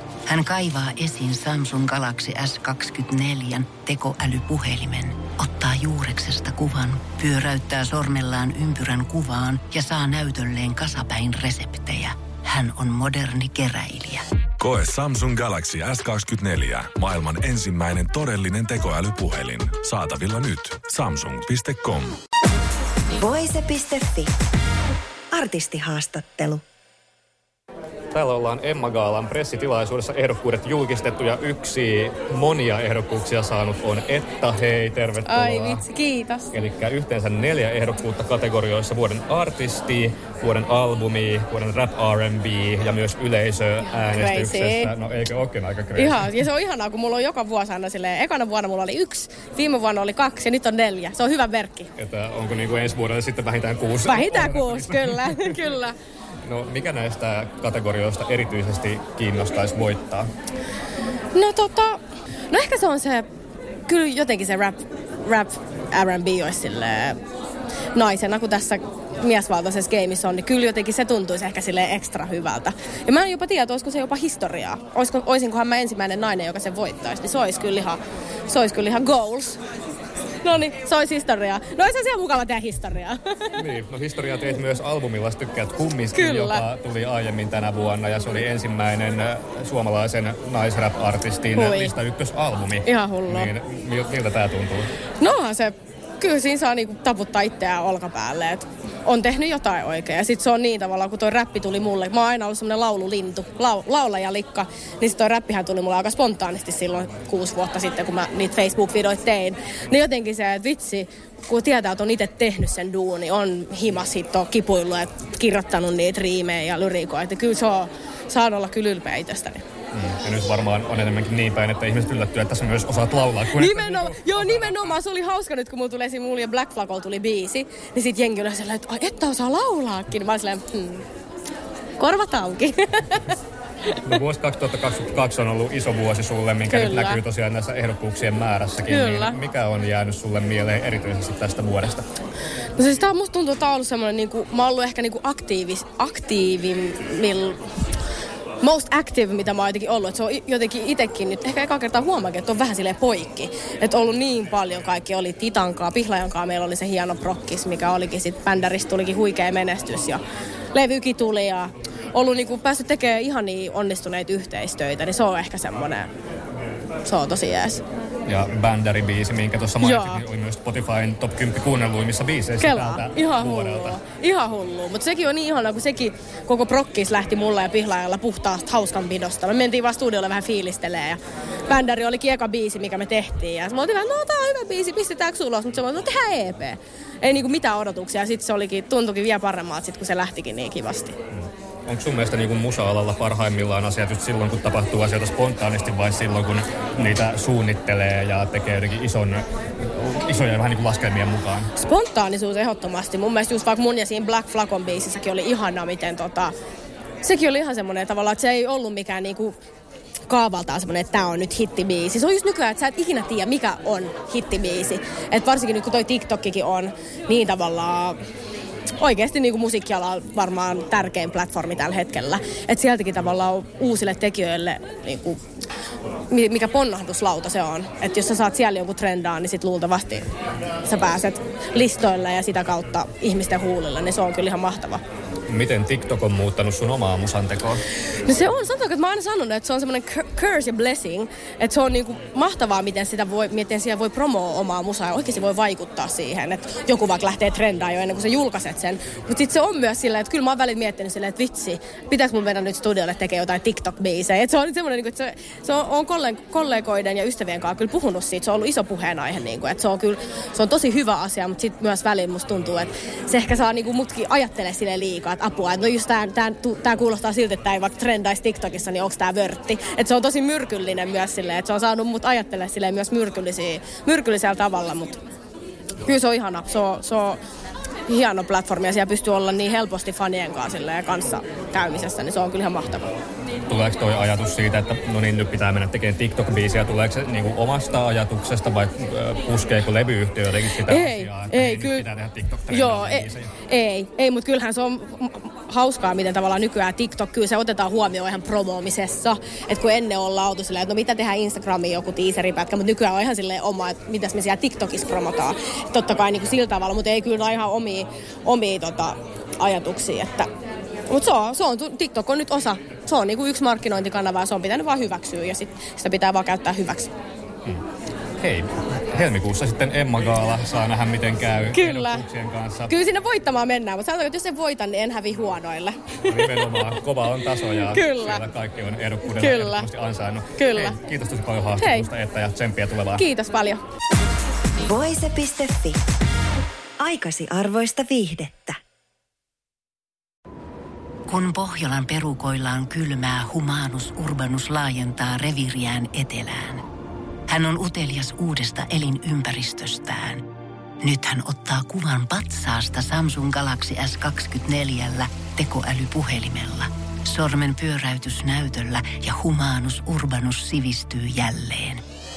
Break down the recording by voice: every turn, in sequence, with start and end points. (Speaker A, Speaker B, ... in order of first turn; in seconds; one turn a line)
Speaker A: 0.3-14.2
Speaker B: 14.6-22.1
Speaker C: 23.2-24.3
Speaker C: 25.3-26.6
Speaker D: 28.1-35.8
Speaker E: 35.2-36.5
Speaker D: 36.5-46.3
Speaker E: 44.0-44.9
Speaker E: 46.0-51.9
Speaker D: 52.0-55.6
Speaker E: 54.1-56.0
Speaker D: 56.5-60.3
Speaker E: 61.4-63.3
Speaker E: 63.9-67.2
Speaker E: 68.0-79.6
Speaker E: 80.4-83.7
Speaker D: 83.6-94.9
Speaker E: 86.1-86.7
Speaker E: 91.5-91.9
Speaker E: 92.8-93.5
Speaker E: 95.2-119.6
Speaker D: 119.9-124.9
Speaker E: 123.5-131.1
Speaker E: 132.0-133.3
Speaker E: 133.9-134.1
Speaker D: 134.1-142.1
Speaker E: 136.7-137.2
Speaker E: 138.9-139.4
Speaker E: 142.8-147.6
Speaker E: 148.6-160.2
Speaker E: 160.7-166.1
Speaker E: 167.1-167.8
Speaker D: 168.3-174.0
Speaker E: 169.8-170.2
Speaker E: 172.6-191.2
Speaker D: 191.3-201.7
Speaker E: 201.8-206.5
Speaker E: 207.2-209.5
Speaker E: 210.3-218.2
Speaker E: 219.0-225.4
Speaker E: 226.3-230.3
Speaker E: 230.8-235.0
Speaker D: 235.5-237.8
Speaker E: 238.2-275.2
Speaker E: 276.1-277.4
Speaker E: 278.1-283.1
Speaker D: 283.7-293.5
Speaker E: 290.9-292.1
Speaker E: 292.7-310.5
Speaker E: 311.1-317.1
Speaker D: 318.4-322.9
Speaker E: 321.7-322.2
Speaker E: 322.9-326.9
Speaker D: 326.3-333.3
Speaker E: 327.8-328.4
Speaker E: 329.3-329.9
Speaker E: 330.6-331.0
Speaker E: 331.8-332.1
Speaker E: 333.2-333.8
Speaker C: 334.8-336.0
Speaker C: 337.0-338.8
Speaker A: 341.3-346.8
Speaker A: 347.5-350.4
Speaker A: 351.0-362.0